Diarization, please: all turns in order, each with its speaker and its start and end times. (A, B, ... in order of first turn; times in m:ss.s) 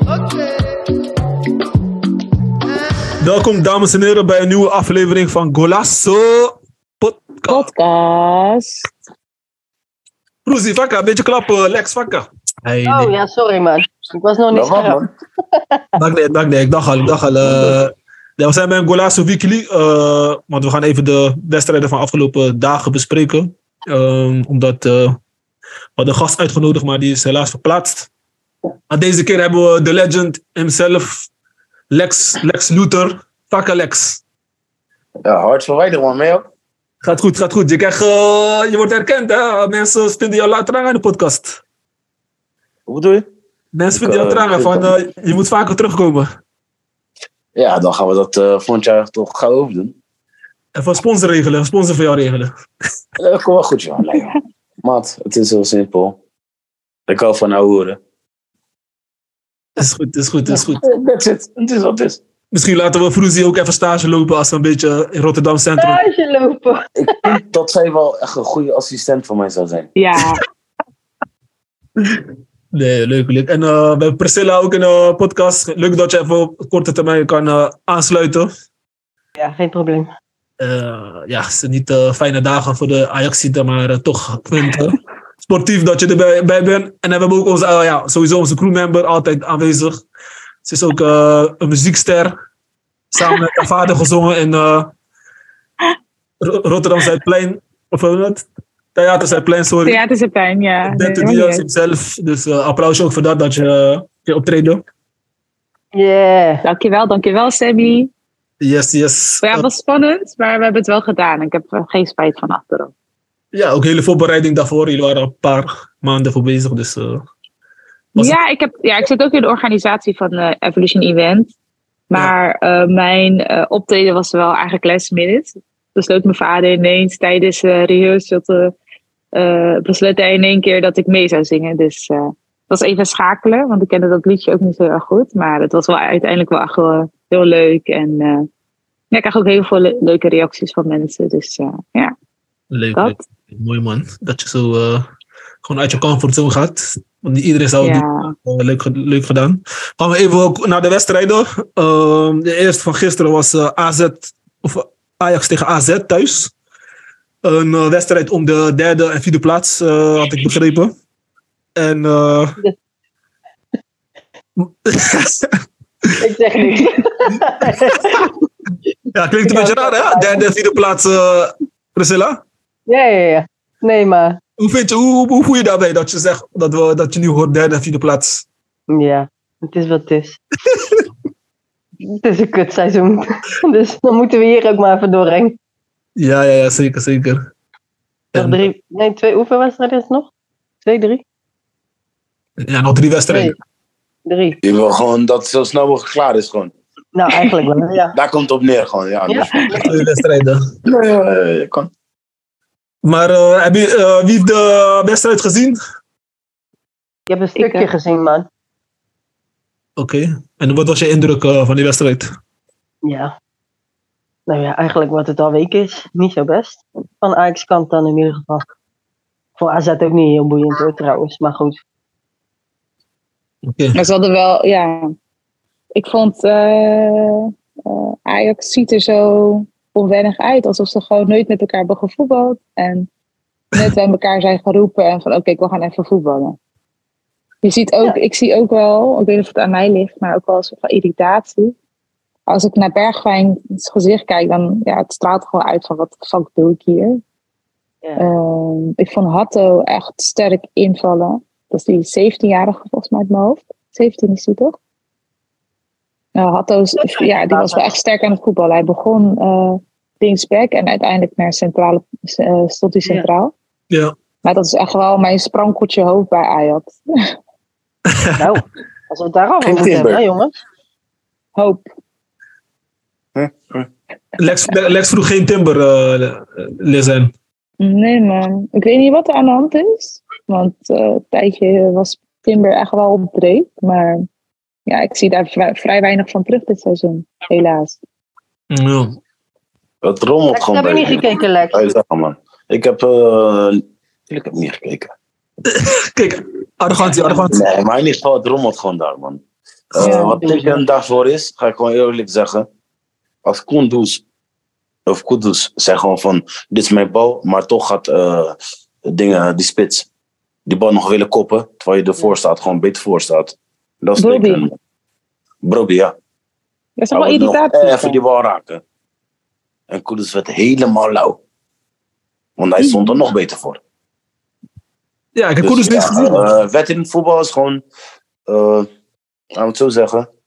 0:03.2-0:07.7 A
0:07.5-0:08.9 B
0:10.4-0:13.2 A
0:12.9-0:15.0 C
0:14.5-0:15.1 D
0:15.6-0:15.8 C
0:16.0-0:25.2 A
0:17.4-0:17.8 D
0:26.0-0:28.1 A
0:28.9-0:31.3 A
0:31.9-0:34.2 A
0:35.2-0:36.4 D
0:37.0-0:41.6 A
0:42.9-0:43.3 D
0:43.7-0:46.3 A
0:43.9-0:45.0 D
0:47.6-0:49.9 D
0:50.8-0:52.5 A
0:53.2-0:56.2 D
0:57.1-0:58.0 D
0:59.8-1:00.9 A
1:00.6-1:02.2 D
1:02.5-1:06.0 A
1:05.8-1:07.4 C
1:07.0-1:09.9 D
1:10.0-1:10.4 B
1:12.0-1:18.5 A
1:19.4-1:20.1 C
1:20.6-1:30.0 A
1:30.6-1:32.4 A
1:33.1-1:34.9 A
1:36.4-1:40.0 A
1:39.8-1:41.6 B
1:40.9-1:44.8 A
1:45.9-1:46.6 C
1:46.6-1:48.1 B
1:48.6-1:49.7 A
1:49.4-1:52.9 B
1:53.5-1:57.3 A
1:58.2-2:01.5 B
2:02.1-2:08.7 B
2:09.4-2:18.5 B
2:19.1-2:22.1 B
2:22.7-2:25.1 A
2:25.6-2:36.5 A
2:27.8-2:28.3 B
2:37.4-2:40.9 A
2:41.8-2:42.6 A
2:44.6-2:45.6 A
2:46.2-2:48.3 C
2:47.3-2:48.3 A
2:49.1-2:52.4 A
2:49.5-2:50.4 C
2:52.9-2:54.4 C
2:54.6-2:58.4 A
2:58.9-3:00.4 C
3:02.1-3:05.6 C
3:06.2-3:07.5 A
3:08.3-3:08.6 A
3:08.4-3:10.3 C
3:10.8-3:11.2 C
3:12.6-3:13.5 A
3:13.3-3:13.6 C
3:14.3-3:14.6 C
3:14.6-3:16.7 D
3:17.2-3:18.2 C
3:18.1-3:19.6 D
3:19.3-3:19.8 C
3:19.6-3:20.2 B
3:19.8-3:20.6 A
3:20.8-3:21.9 D
3:23.0-3:25.8 A
3:27.3-3:28.5 C
3:27.6-3:27.9 B
3:30.0-3:32.3 A
3:33.0-3:33.3 C
3:34.5-3:38.6 C
3:39.6-3:41.8 C
3:43.7-3:44.0 A
3:43.9-3:45.1 B
3:46.0-3:53.1 B
3:53.7-3:56.6 B
3:57.6-4:01.8 B
4:02.5-4:07.2 B
4:08.2-4:14.8 B
4:16.4-4:23.5 B
4:17.0-4:17.9 C
4:24.4-4:27.0 B
4:28.1-4:28.5 A
4:28.4-4:30.5 C
4:29.6-4:30.2 D
4:31.6-4:31.8 B
4:33.4-4:33.9 D
4:34.4-4:37.3 A
4:37.8-4:44.3 B
4:44.9-4:48.0 B
4:48.7-4:49.2 A
4:50.0-4:55.1 D
4:50.5-4:51.9 C
4:55.7-4:57.6 A
4:57.3-4:59.4 D
4:59.9-5:02.7 D
5:00.0-5:00.4 B
5:00.0-5:00.8 C
5:03.4-5:04.2 D
5:05.1-5:10.1 D
5:10.7-5:14.8 D
5:14.2-5:14.6 B
5:15.6-5:16.2 D
5:17.0-5:18.2 B
5:17.1-5:18.8 D
5:19.9-5:21.4 D
5:22.6-5:23.8 D
5:22.8-5:23.2 B
5:25.4-5:26.5 A
5:25.6-5:27.8 D
5:28.5-5:28.9 D
5:29.6-5:30.3 D